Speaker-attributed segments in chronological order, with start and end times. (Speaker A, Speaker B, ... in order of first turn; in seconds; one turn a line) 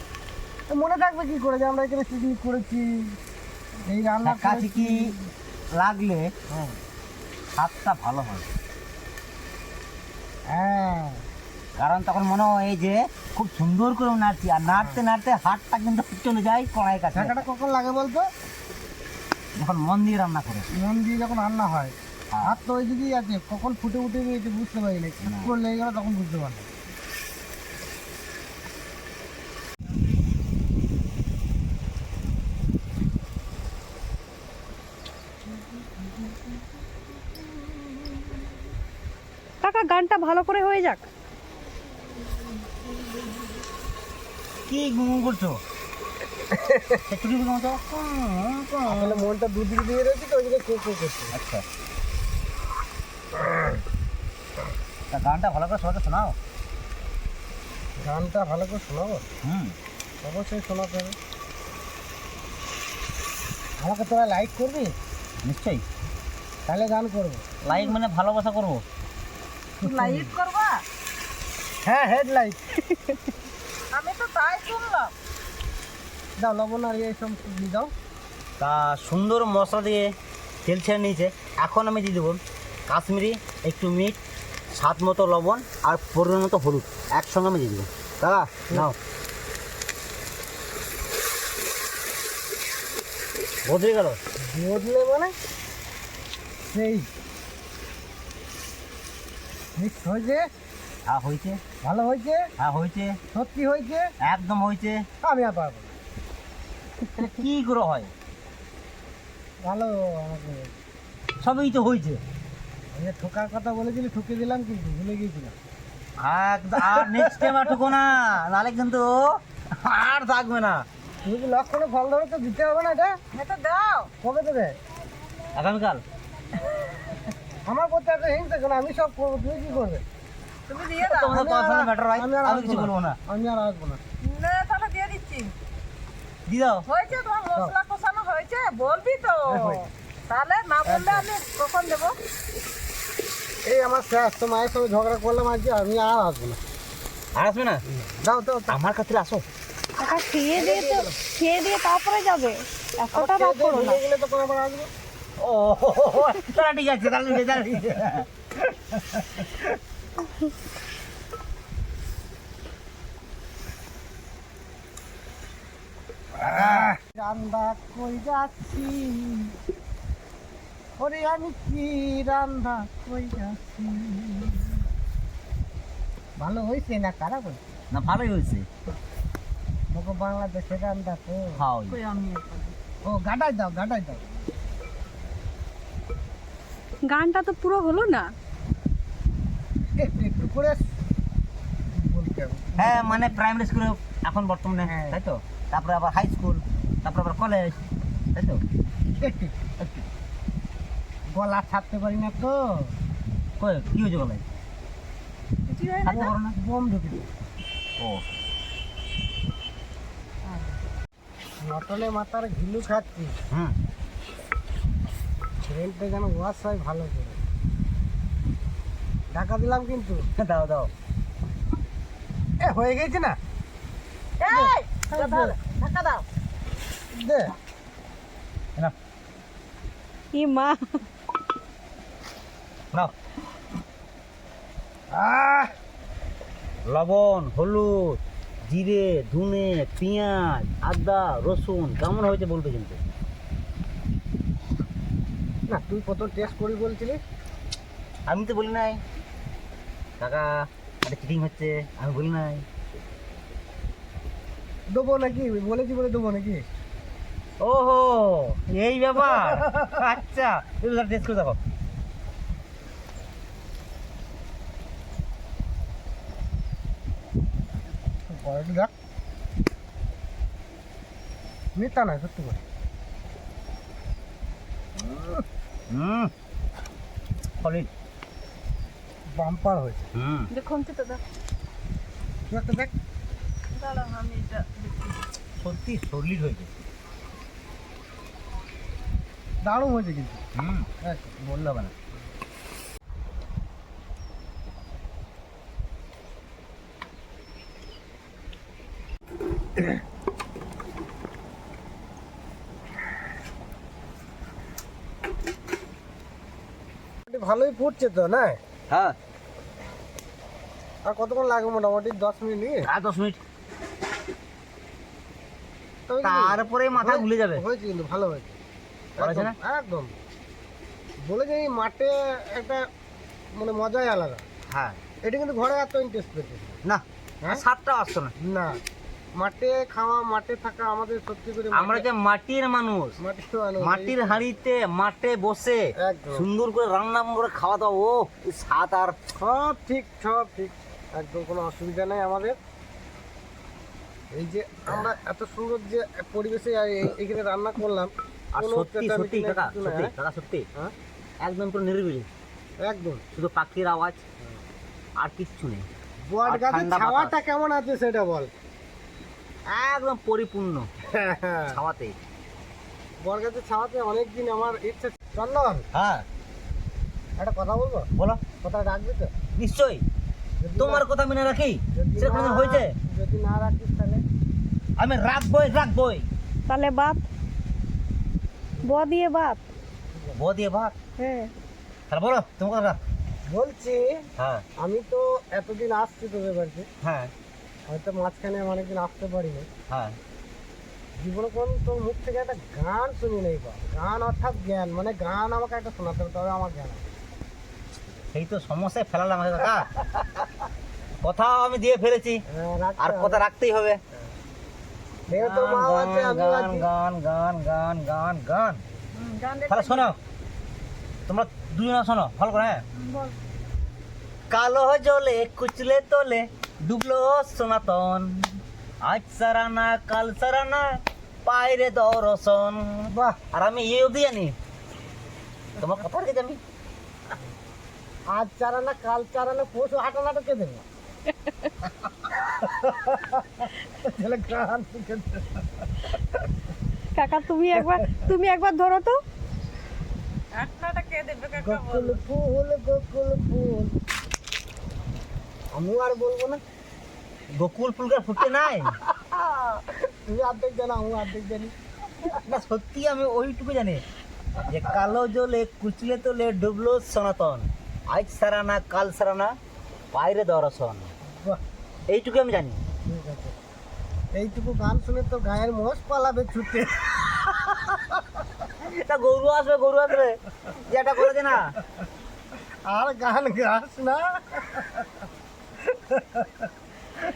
Speaker A: 0.7-3.2
Speaker A: 3.8-5.3
Speaker B: 4.2-5.1
Speaker B: 5.7-6.3
Speaker A: 6.5-6.8
Speaker B: 7.5-8.5
Speaker A: 10.5-11.2
Speaker B: 11.8-17.4
Speaker A: 17.1-18.3
Speaker B: 19.5-20.7
Speaker A: 20.7-26.7
Speaker B: 25.2-25.5
Speaker C: 39.6-41.0
Speaker B: 44.7-45.6
Speaker A: 46.5-47.0
Speaker B: 47.1-49.3
Speaker A: 48.9-51.3
Speaker B: 51.3-51.6
Speaker A: 53.4-53.8
Speaker B: 55.1-56.4
Speaker A: 58.0-59.2
Speaker B: 59.4-59.8
Speaker A: 60.2-61.1
Speaker A: 63.8-64.9
Speaker B: 65.4-65.8
Speaker A: 66.7-67.5
Speaker B: 67.6-68.8
Speaker D: 67.7-67.9
Speaker A: 69.8-70.3
Speaker D: 69.8-70.8
Speaker A: 71.8-72.6
Speaker C: 72.9-73.2
Speaker D: 73.9-75.1
Speaker A: 76.4-77.9
Speaker B: 78.6-80.1
Speaker B: 80.6-84.2
Speaker B: 84.7-89.0
Speaker B: 93.6-94.2
Speaker A: 94.4-95.3
Speaker A: 96.7-97.1
Speaker A: 99.8-100.5
Speaker B: 101.1-101.6
Speaker A: 101.8-102.5
Speaker B: 102.6-103.2
Speaker A: 103.3-104.1
Speaker B: 104.2-105.0
Speaker A: 105.2-105.9
Speaker B: 107.1-108.1
Speaker A: 109.6-110.7
Speaker B: 111.4-112.2
Speaker A: 112.9-115.5
Speaker B: 116.2-120.8
Speaker A: 116.8-117.7
Speaker A: 121.2-123.2
Speaker D: 123.3-124.1
Speaker A: 124.2-124.8
Speaker B: 125.5-126.0
Speaker A: 127.7-130.0
Speaker D: 130.7-131.4
Speaker B: 131.0-133.2
Speaker A: 131.3-134.0
Speaker D: 134.2-135.5
Speaker B: 136.5-136.8
Speaker D: 136.9-142.2
Speaker A: 139.5-139.9
Speaker A: 140.8-141.3
Speaker A: 143.6-146.6
Speaker B: 147.3-147.8
Speaker A: 147.9-148.8
Speaker B: 148.7-149.4
Speaker C: 150.0-154.0
Speaker A: 150.5-151.1
Speaker A: 153.1-154.9
Speaker B: 155.4-159.7
Speaker A: 166.4-169.6
Speaker B: 166.5-166.9
Speaker A: 171.0-174.8
Speaker A: 176.4-177.6
Speaker B: 177.9-178.7
Speaker A: 179.9-181.6
Speaker B: 181.6-182.0
Speaker D: 181.9-182.7
Speaker A: 183.0-184.3
Speaker C: 187.0-188.3
Speaker A: 189.9-190.9
Speaker A: 191.9-193.3
Speaker B: 192.8-198.6
Speaker A: 194.8-195.2
Speaker A: 199.2-199.6
Speaker B: 199.8-200.1
Speaker A: 201.3-202.9
Speaker B: 203.6-204.4
Speaker D: 205.7-206.3
Speaker B: 206.0-206.6
Speaker A: 206.1-207.3
Speaker B: 208.0-208.2
Speaker A: 211.6-213.3
Speaker B: 213.5-213.8
Speaker A: 215.6-217.4
Speaker A: 219.3-220.3
Speaker B: 220.4-220.9
Speaker A: 222.6-223.4
Speaker D: 224.4-226.2
Speaker A: 224.4-225.6
Speaker A: 227.1-227.5
Speaker C: 230.3-231.0
Speaker A: 235.1-235.7
Speaker B: 236.9-243.0
Speaker A: 245.7-247.2
Speaker B: 248.3-249.0
Speaker B: 250.2-252.6
Speaker A: 254.9-256.6
Speaker B: 257.6-261.6
Speaker A: 259.6-259.8
Speaker A: 268.3-268.9
Speaker A: 271.7-272.6
Speaker A: 275.0-275.4
Speaker B: 275.9-276.3
Speaker B: 277.6-277.9
Speaker A: 279.2-280.1
Speaker B: 280.1-280.5
Speaker C: 280.5-281.2
Speaker A: 282.4-282.9
Speaker D: 283.7-285.2
Speaker B: 285.6-286.7
Speaker A: 289.6-290.4
Speaker B: 290.5-290.9
Speaker A: 291.0-291.4
Speaker B: 291.4-291.9
Speaker A: 307.2-308.6
Speaker B: 308.9-309.1
Speaker A: 311.0-312.9
Speaker B: 312.8-313.4
Speaker A: 316.1-318.6
Speaker B: 316.2-317.6
Speaker A: 319.2-320.1
Speaker B: 319.2-319.6
Speaker A: 321.2-322.9
Speaker A: 323.5-324.4
Speaker B: 324.7-325.0
Speaker A: 325.2-326.8
Speaker B: 326.8-328.3
Speaker A: 328.4-328.8
Speaker A: 329.4-332.1
Speaker B: 331.7-333.1
Speaker A: 333.2-334.4
Speaker B: 333.8-339.2
Speaker A: 336.0-336.5
Speaker A: 339.4-342.6
Speaker A: 344.3-350.1
Speaker B: 348.5-350.7
Speaker B: 351.4-352.3
Speaker A: 352.8-353.2
Speaker B: 353.3-354.2
Speaker B: 355.2-355.9
Speaker A: 356.3-358.5
Speaker B: 356.4-357.4
Speaker B: 359.7-360.9
Speaker A: 361.1-361.8
Speaker B: 361.7-362.2
Speaker A: 363.2-365.9
Speaker B: 365.9-366.2
Speaker A: 367.4-368.1
Speaker B: 368.2-368.4
Speaker A: 368.6-369.3
Speaker B: 369.5-370.0
Speaker A: 370.6-371.0
Speaker B: 370.8-372.9
Speaker A: 371.9-374.2
Speaker B: 375.0-376.3
Speaker C: 376.7-377.2
Speaker C: 378.8-379.7
Speaker A: 380.1-380.4
Speaker B: 380.4-380.9
Speaker C: 381.2-381.5
Speaker B: 382.1-383.0
Speaker A: 383.5-384.3
Speaker B: 384.4-384.6
Speaker A: 384.8-386.9
Speaker B: 387.0-387.3
Speaker A: 387.9-389.7
Speaker B: 389.9-390.2
Speaker A: 391.2-397.0
Speaker B: 398.3-400.4
Speaker B: 401.2-402.4
Speaker A: 402.5-403.4
Speaker B: 403.0-404.0
Speaker A: 405.3-406.9
Speaker B: 405.3-408.8
Speaker D: 409.1-410.1
Speaker B: 409.7-410.2
Speaker B: 411.3-412.8
Speaker D: 412.9-413.3
Speaker B: 414.5-424.6
Speaker A: 423.1-423.4
Speaker B: 425.8-426.6
Speaker A: 428.3-430.8
Speaker C: 431.3-431.7
Speaker A: 432.4-435.9
Speaker C: 437.1-439.2
Speaker D: 440.5-442.2
Speaker A: 441.5-443.9
Speaker A: 445.7-446.6
Speaker B: 447.5-449.0
Speaker A: 449.0-452.5
Speaker B: 452.4-454.0
Speaker B: 454.6-459.6
Speaker B: 460.1-461.1
Speaker A: 461.2-461.6
Speaker B: 462.1-462.8
Speaker A: 463.0-463.6
Speaker A: 464.3-468.2
Speaker B: 468.8-471.7
Speaker A: 472.8-475.1
Speaker A: 475.8-476.7